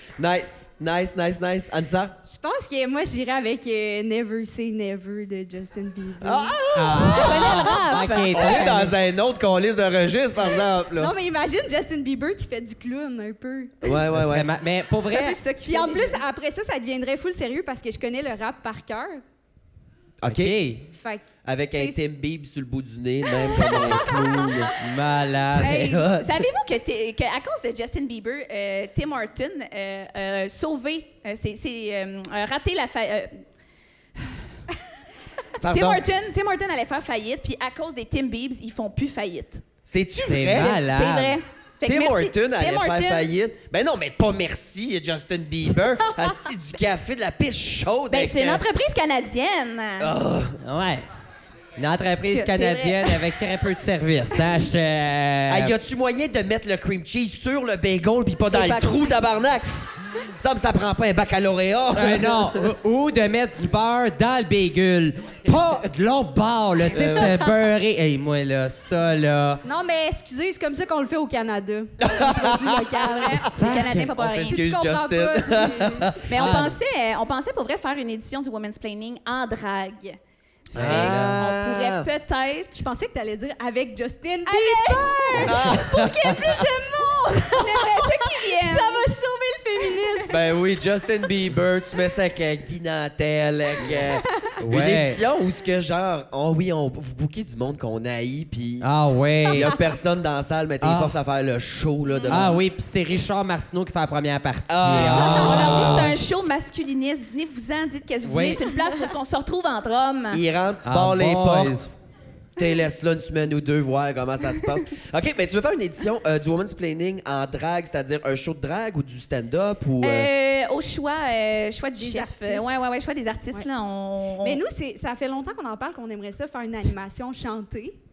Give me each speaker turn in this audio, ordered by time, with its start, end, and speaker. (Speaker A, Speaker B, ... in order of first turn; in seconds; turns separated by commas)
Speaker A: 0.2-2.2, Speaker B: 2.3-7.7, Speaker A: 6.2-7.8, Speaker C: 6.7-8.9, Speaker D: 6.9-8.7, Speaker A: 8.3-11.1, Speaker B: 10.9-13.9, Speaker A: 13.8-14.5, Speaker C: 14.1-15.4, Speaker D: 15.1-16.2, Speaker B: 15.6-19.2, Speaker A: 20.2-20.6, Speaker C: 20.3-20.9, Speaker B: 20.9-22.0, Speaker A: 21.4-24.8, Speaker B: 23.4-24.7, Speaker C: 24.8-25.9, Speaker A: 25.5-26.5, Speaker D: 25.6-33.4, Speaker D: 34.2-34.4, Speaker A: 35.6-36.0, Speaker D: 35.6-39.6, Speaker A: 39.9-40.8, Speaker C: 40.3-41.4, Speaker D: 40.5-43.3, Speaker A: 41.8-48.6, Speaker D: 48.1-50.1, Speaker A: 50.0-50.6, Speaker C: 50.6-51.0, Speaker C: 51.8-55.7, Speaker D: 52.3-53.5, Speaker A: 55.5-62.7, Speaker D: 58.5-59.2, Speaker C: 62.0-69.6, Speaker A: 66.9-67.5, Speaker B: 69.6-73.6, Speaker A: 72.0-76.3, Speaker D: 73.1-74.6, Speaker C: 73.5-74.1, Speaker B: 74.4-76.2, Speaker D: 76.3-80.2, Speaker C: 76.3-76.8, Speaker D: 80.7-82.8, Speaker C: 80.7-81.4, Speaker A: 80.7-82.1, Speaker B: 82.7-90.4, Speaker D: 84.5-89.1, Speaker A: 85.4-86.7, Speaker D: 89.9-90.3, Speaker A: 90.3-98.9, Speaker C: 94.6-95.2, Speaker C: 98.8-99.8, Speaker A: 99.5-102.6, Speaker C: 100.8-101.2, Speaker D: 102.1-102.5, Speaker C: 102.3-106.2, Speaker A: 104.7-106.2, Speaker D: 105.0-110.4, Speaker C: 108.2-108.7, Speaker A: 110.3-111.9, Speaker C: 110.8-112.0, Speaker A: 112.6-120.3, Speaker D: 120.0-124.6, Speaker B: 122.0-122.9, Speaker B: 124.4-128.0